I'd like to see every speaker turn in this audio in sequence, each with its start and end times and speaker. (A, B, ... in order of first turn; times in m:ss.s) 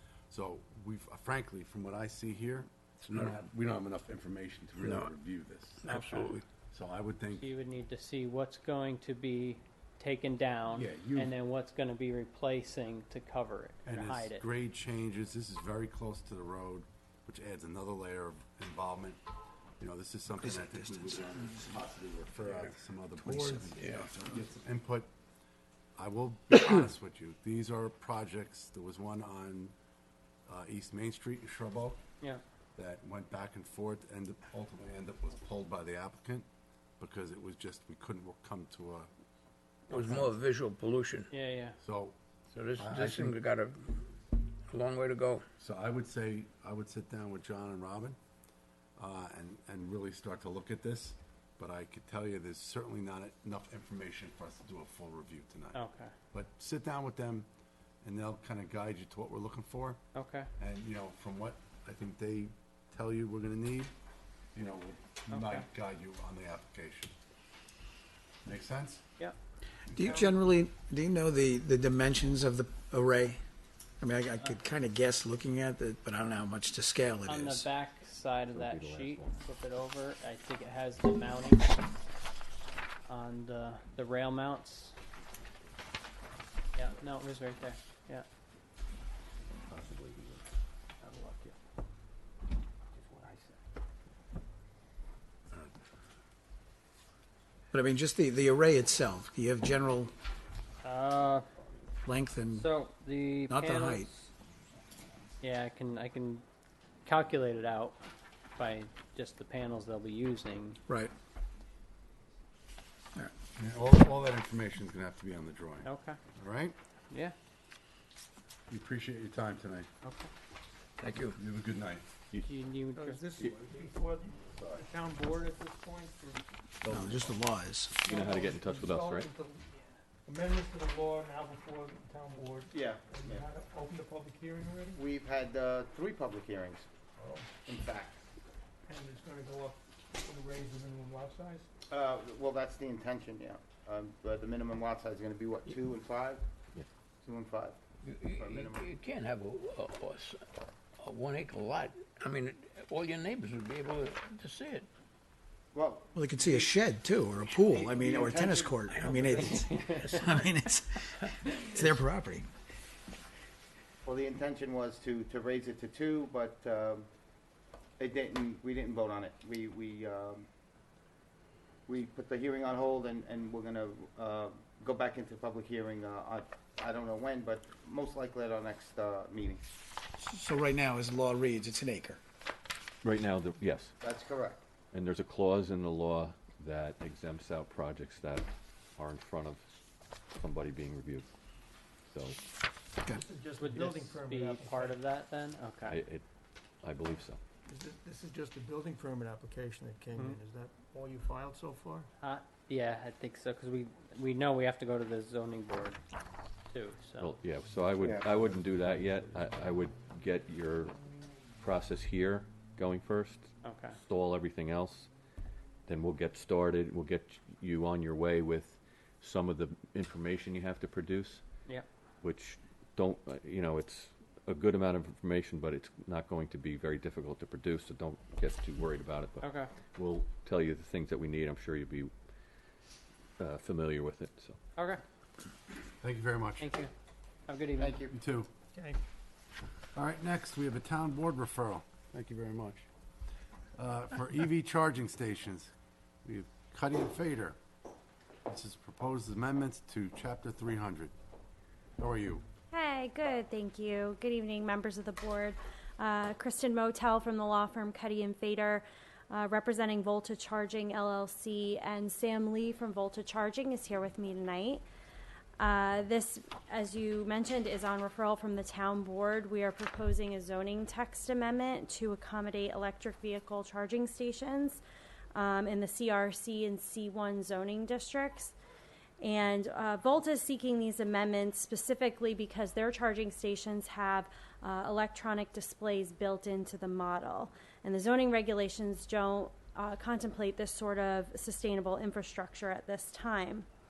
0:00.3-0:07.5 A
0:04.8-0:05.1 B
0:05.8-0:06.4 B
0:05.9-0:06.2 C
0:07.3-0:14.4 C
0:10.7-0:11.3 A
0:13.8-0:19.2 A
0:19.8-0:25.1 A
0:20.4-0:21.5 D
0:23.2-0:24.3 D
0:23.8-0:24.0 B
0:26.0-0:29.7 A
0:30.5-0:32.0 A
0:32.8-0:36.4 A
0:37.0-0:39.1 A
0:39.9-0:41.3 B
0:39.9-0:40.3 A
0:41.3-0:41.8 C
0:41.8-0:42.1 A
0:42.5-0:43.9 B
0:42.8-0:43.4 A
0:44.7-0:45.4 B
0:45.6-0:48.2 A
0:49.0-0:55.8 A
0:55.7-0:56.1 C
0:56.3-0:57.5 A
0:58.0-1:00.0 A
1:00.1-1:00.5 C
1:00.6-1:03.9 A
1:04.5-1:07.1 A
1:05.3-1:05.7 C
1:08.4-1:09.0 A
1:09.9-1:10.3 A
1:09.9-1:13.4 D
1:14.0-1:17.7 D
1:17.3-1:21.9 C
1:18.5-1:19.4 E
1:23.1-1:25.0 C
1:26.7-1:28.2 C
1:37.7-1:40.1 D
1:40.8-1:41.4 C
1:42.0-1:42.7 D
1:42.5-1:44.3 C
1:43.5-1:44.1 D
1:45.4-1:46.4 C
1:47.0-1:48.0 C
1:48.6-1:50.8 C
1:50.9-1:51.1 D
1:53.5-1:56.7 A
1:55.8-1:56.2 C
1:58.7-1:59.9 A
2:00.0-2:00.3 C
2:01.0-2:01.4 B
2:01.3-2:02.1 A
2:02.5-2:03.2 C
2:02.9-2:06.9 F
2:04.5-2:04.8 A
2:06.9-2:08.0 D
2:08.0-2:09.3 E
2:08.0-2:09.7 F
2:10.2-2:15.0 F
2:12.7-2:13.5 G
2:14.9-2:16.9 G
2:17.2-2:17.5 F
2:17.6-2:18.2 G
2:18.9-2:21.7 F
2:21.9-2:26.4 G
2:27.2-2:27.8 G
2:28.0-2:30.4 B
2:28.3-2:28.9 G
2:31.0-2:34.9 B
2:35.7-2:36.6 G
2:36.1-2:42.5 D
2:37.6-2:39.5 G
2:39.0-2:39.2 B
2:39.5-2:40.0 C
2:44.0-2:47.1 G
2:48.0-2:50.4 G
2:51.9-2:59.6 G
3:00.2-3:02.2 D
3:03.0-3:03.9 E
3:04.0-3:04.6 G
3:04.9-3:09.6 E
3:10.4-3:11.3 E
3:12.1-3:12.4 E
3:13.2-3:15.0 F
3:13.6-3:16.0 C
3:15.8-3:16.2 E
3:16.8-3:17.4 E
3:17.7-3:22.1 F
3:22.2-3:26.0 C
3:26.7-3:27.3 C
3:27.2-3:31.0 E
3:28.0-3:28.5 G
3:31.6-3:35.1 E
3:33.6-3:34.0 C
3:35.9-3:41.4 E
3:42.2-3:52.1 E
3:49.4-3:49.7 C
3:53.4-3:54.6 E
3:54.8-3:55.0 C
3:56.0-3:56.7 A
3:56.6-3:56.9 C
3:57.5-3:58.0 C
3:57.8-3:58.1 G
3:58.1-3:58.5 A
3:58.7-3:59.0 F
3:59.9-4:02.9 A
4:03.8-4:05.7 A
4:06.2-4:07.6 A
4:08.5-4:11.1 A
4:12.0-4:12.4 A
4:12.7-4:24.8 H
4:25.6-4:34.8 H
4:35.3-4:38.5 H
4:39.2-4:53.7 H